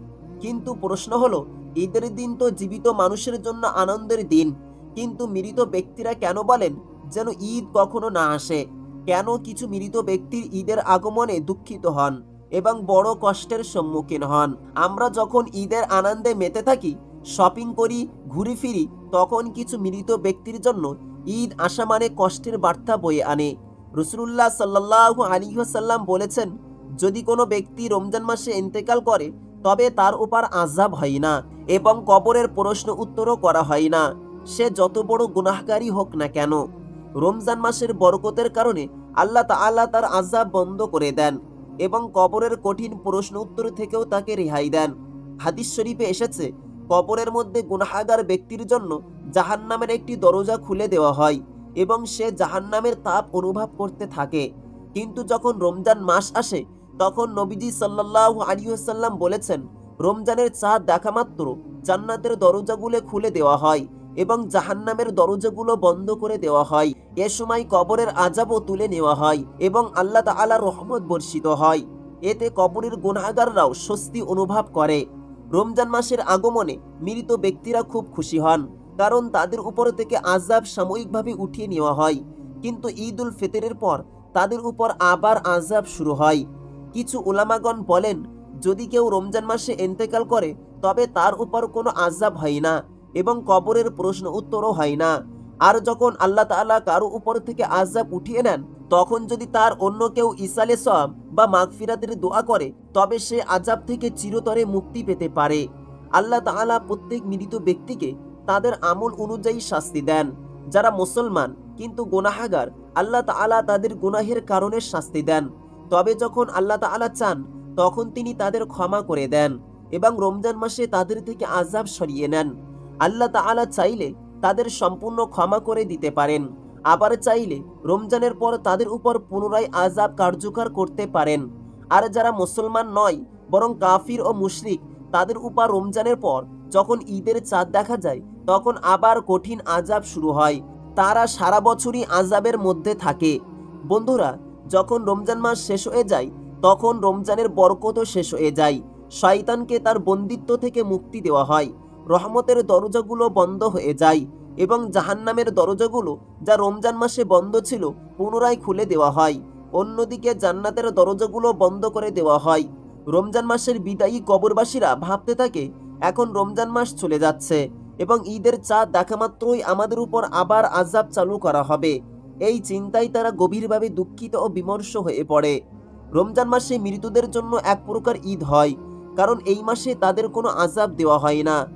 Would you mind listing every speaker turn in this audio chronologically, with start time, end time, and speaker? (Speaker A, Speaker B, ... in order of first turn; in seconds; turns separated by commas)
Speaker A: 0.4-26.5, Speaker A: 27.0-34.0, Speaker A: 34.5-36.6, Speaker A: 37.2-44.9, Speaker A: 45.5-54.4, Speaker A: 55.0-75.0, Speaker A: 75.6-86.4, Speaker A: 87.0-95.1, Speaker A: 95.7-105.6, Speaker A: 106.2-122.5, Speaker A: 123.1-131.4, Speaker A: 131.9-143.3, Speaker A: 143.9-171.9, Speaker A: 172.5-175.5, Speaker A: 176.2-181.6